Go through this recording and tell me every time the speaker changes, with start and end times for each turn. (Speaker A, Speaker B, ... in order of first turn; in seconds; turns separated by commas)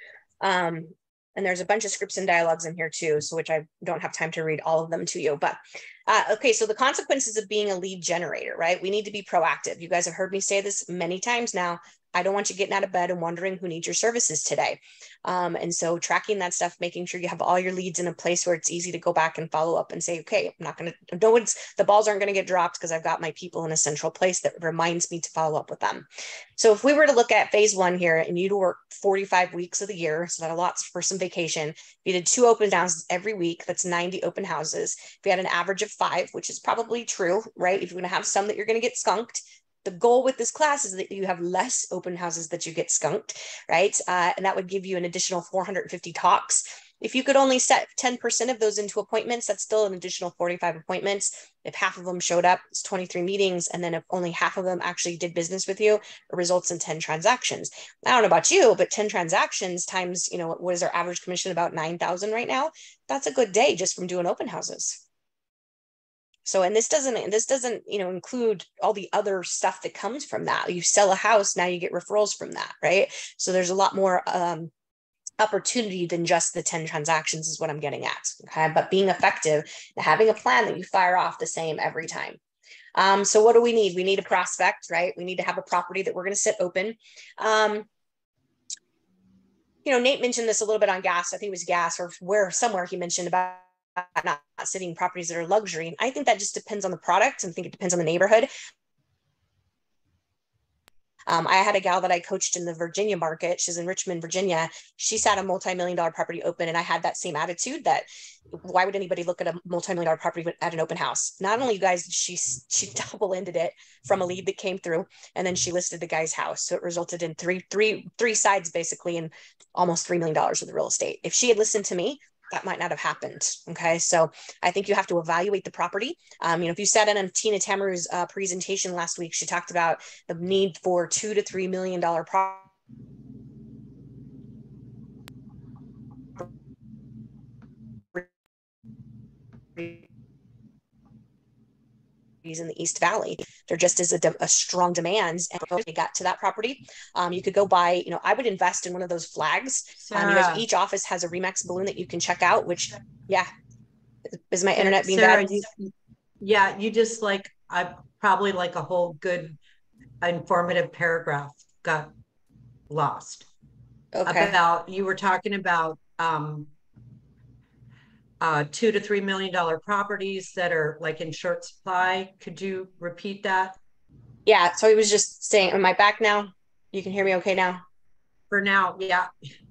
Speaker A: 0.4-65.0, Speaker A: 66.5-74.7, Speaker A: 75.4-82.4, Speaker A: 83.0-87.9, Speaker A: 89.8-98.5, Speaker A: 101.3-132.7, Speaker A: 142.4-153.5, Speaker B: 150.0-150.7, Speaker A: 154.3-155.7, Speaker B: 154.8-159.6, Speaker B: 160.2-162.1, Speaker B: 162.9-163.5, Speaker A: 164.1-164.6, Speaker B: 164.3-166.7, Speaker B: 168.4-173.8, Speaker A: 174.5-177.8, Speaker B: 178.5-179.3